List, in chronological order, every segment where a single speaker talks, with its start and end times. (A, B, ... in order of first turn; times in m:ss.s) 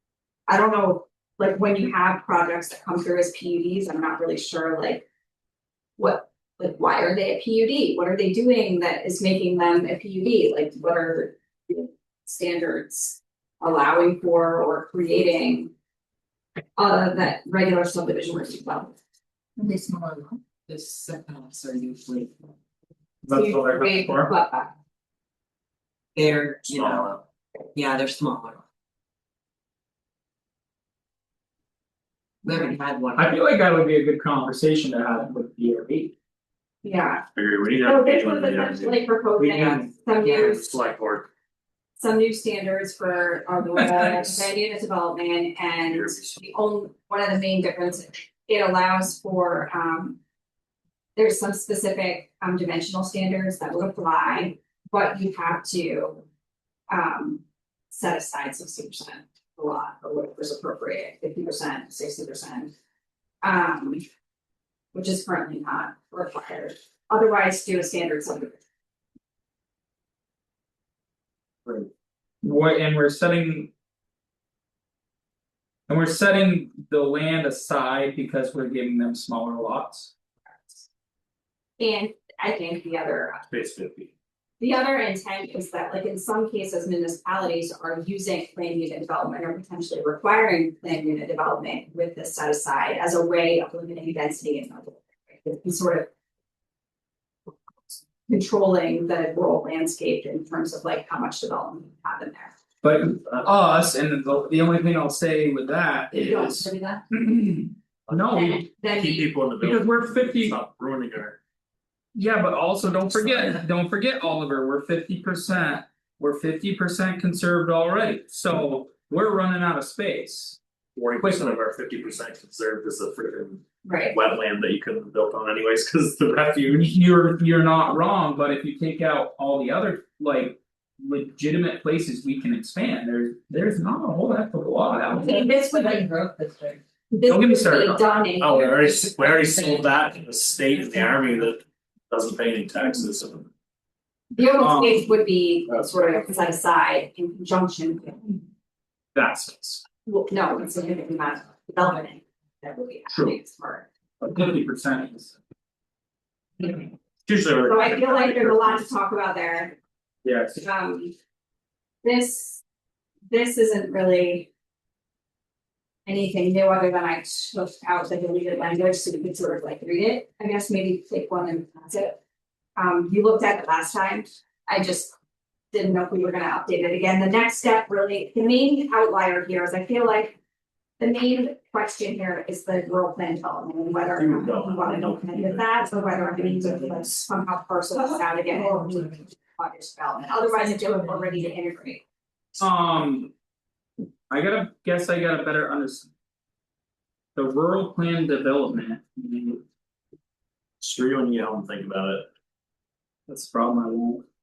0:00.5-0:05.0 A
0:06.0-0:15.7 A
0:16.8-0:19.0 A
0:19.6-0:22.3 B
0:23.2-0:24.3 C
0:23.3-0:24.7 A
0:26.1-0:27.2 B
0:26.8-0:27.2 D
0:27.7-0:28.6 B
0:32.4-0:33.3 B
0:33.2-0:36.1 C
0:36.8-0:37.2 A
0:37.3-0:39.0 D
0:37.8-0:40.7 A
0:39.5-0:39.8 C
0:40.3-0:41.3 D
0:42.0-0:50.2 A
0:45.9-0:46.4 D
0:51.2-0:56.2 A
0:56.9-1:02.7 A
1:03.4-1:04.0 A
1:04.9-1:08.6 A
1:12.4-1:13.7 C
1:15.9-1:20.1 C
1:21.8-1:23.4 A
1:23.5-1:24.1 D
1:24.6-1:36.1 A
1:38.2-1:42.5 A
1:42.8-1:48.6 C
1:46.1-1:47.0 A
1:48.1-1:48.4 D
1:48.3-1:49.3 A
1:48.9-1:51.4 D
1:49.6-1:50.6 C
1:52.1-2:00.6 C
2:01.0-2:06.9 D
2:01.2-2:01.6 C
2:03.8-2:04.2 A
2:06.7-2:15.3 C
2:15.1-2:16.8 B
2:15.1-2:16.0 A
2:17.1-2:19.0 A
2:17.3-2:18.0 C
2:18.4-2:23.5 D
2:24.3-2:28.4 A
2:24.6-2:25.0 C
2:25.7-2:26.2 D
2:29.1-2:29.8 C
2:30.0-2:33.9 A
2:33.1-2:33.4 D
2:34.2-2:35.3 C
2:36.6-2:36.9 A
2:37.2-2:38.8 D
2:37.6-2:39.8 A
2:40.2-2:40.6 C
2:40.6-2:41.1 A
2:42.0-2:42.6 A
2:43.3-2:44.5 A
2:46.0-2:52.2 A
2:52.8-2:55.1 A
2:55.7-3:00.4 A
3:01.0-3:12.0 A
3:04.2-3:07.1 D
3:12.6-3:13.3 C
3:14.3-3:16.1 C
3:17.3-3:19.6 C
3:20.8-3:22.3 D
3:23.3-3:24.2 C